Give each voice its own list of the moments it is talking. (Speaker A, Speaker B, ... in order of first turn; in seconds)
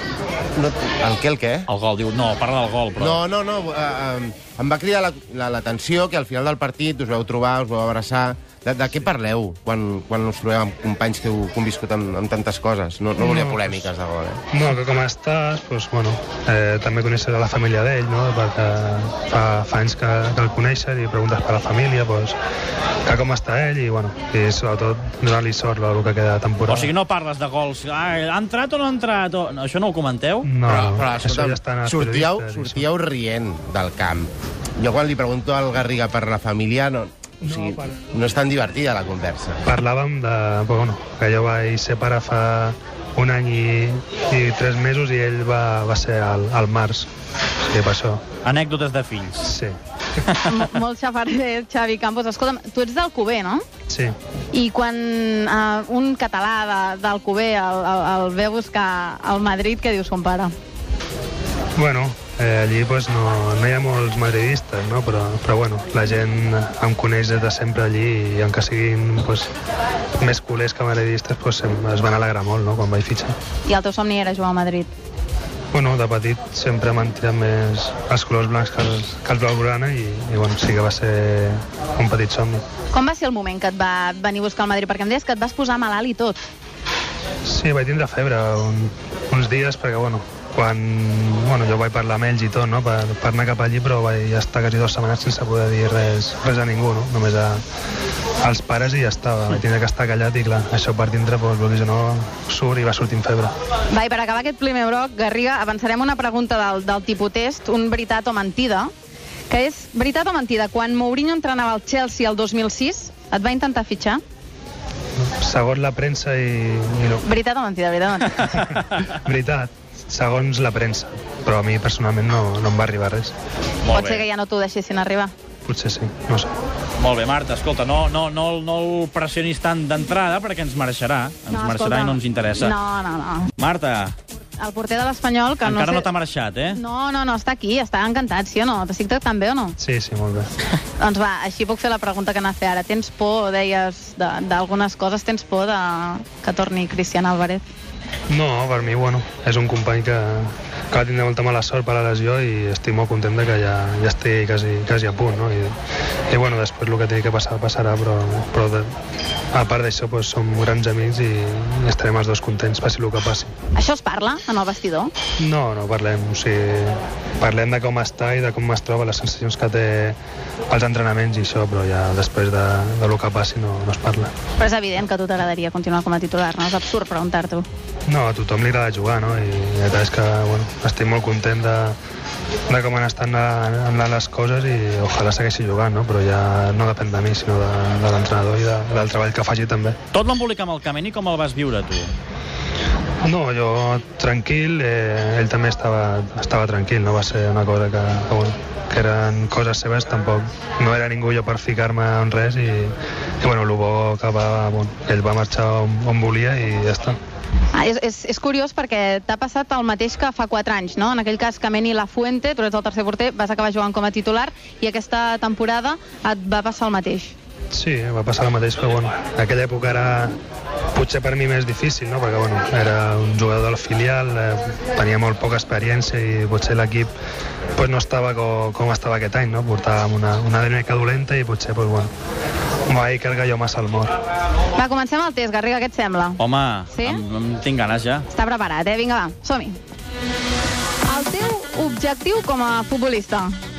Speaker A: 0.6-1.6, 3.0-14.4, 30.7-39.6
Speaker B: 1.7-3.2, 26.7-30.5, 48.4-49.5, 123.8-124.2, 127.0-132.8, 133.6-134.2, 135.7-136.8, 190.1-192.1, 236.4-238.3
Speaker C: 13.2-13.9, 14.5-22.4, 23.1-26.9, 30.4-32.9, 37.4-38.3, 39.6-47.1, 47.6-48.2, 49.4-49.8, 61.8-69.5, 70.2-73.4, 75.7-82.7, 87.5-97.6, 98.4-103.5, 115.2-117.2, 118.4-123.3, 125.7-126.5, 139.8-140.5, 148.3-155.8, 156.3-158.9, 159.5-163.5, 165.4-170.2, 170.7-174.3, 178.1-182.0, 182.7-190.0, 193.2-207.2, 217.7-220.3, 220.9-227.1, 227.8-232.1, 232.9-234.2
Speaker D: 50.4-53.6, 54.5-60.5, 73.7-74.9, 82.9-86.4, 103.9-108.9, 109.5-114.2, 117.2-118.6, 123.9-125.3, 131.5-133.5, 134.6-136.1, 136.7-139.8, 141.0-147.7, 163.8-165.1, 174.6-177.7, 207.7-217.3, 234.8-236.4, 236.9-237.2, 238.3-239.8, 241.1-243.6